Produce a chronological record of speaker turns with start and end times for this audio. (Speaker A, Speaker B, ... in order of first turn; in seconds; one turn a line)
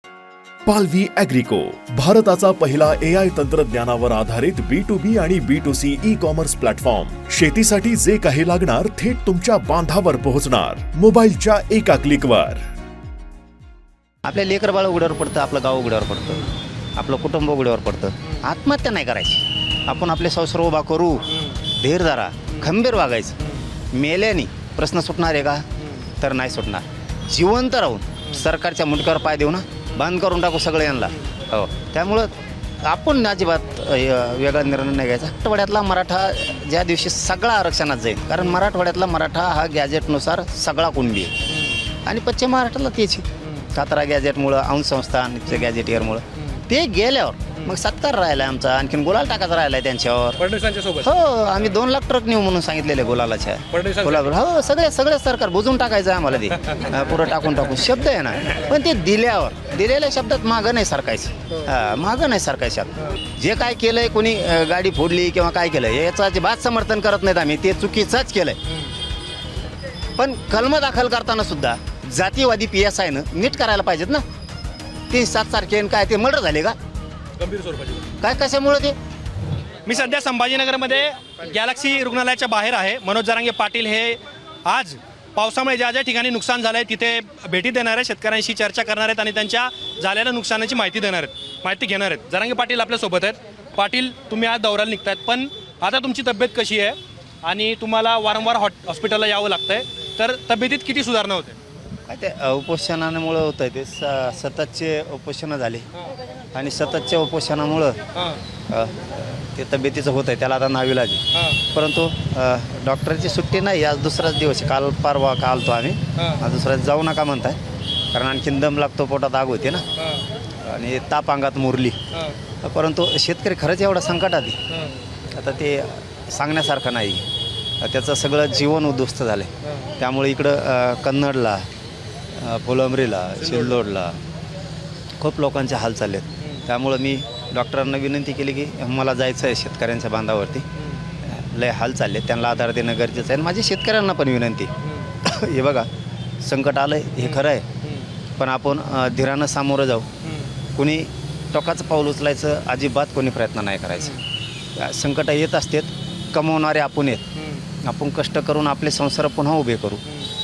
Speaker A: 0.7-12.6
Speaker B: 14.2-23.4
Speaker B: 23.9-25.6
Speaker B: 26.2-32.3
Speaker B: 32.8-41.3
Speaker C: 41.5-41.8
Speaker B: 42.1-50.4
Speaker C: 43.4-43.7
Speaker C: 50.4-51.1
Speaker B: 51.0-68.6
Speaker C: 53.7-54.4
Speaker B: 70.2-74.2
Speaker B: 75.1-76.8
Speaker C: 77.4-78.1
Speaker B: 78.2-79.0
Speaker C: 79.9-101.6
Speaker B: 102.1-105.9
Speaker B: 106.5-108.0
Speaker B: 108.7-117.6
Speaker C: 111.3-111.6
Speaker C: 116.2-116.4
Speaker B: 118.1-119.8
Speaker C: 120.0-120.2
Speaker B: 120.6-122.0
Speaker B: 122.6-124.6
Speaker B: 125.3-127.3
Speaker B: 127.8-131.7
Speaker C: 129.6-129.9
Speaker B: 132.3-134.2
Speaker C: 133.4-133.7
Speaker B: 135.2-140.7
Speaker B: 141.2-144.7
Speaker B: 145.2-145.9
Speaker B: 146.4-147.7
Speaker C: 147.3-148.1
Speaker B: 148.4-150.1
Speaker C: 150.2-150.5
Speaker B: 150.8-154.2
Speaker B: 154.8-157.3
Speaker C: 157.4-157.6
Speaker B: 157.8-160.0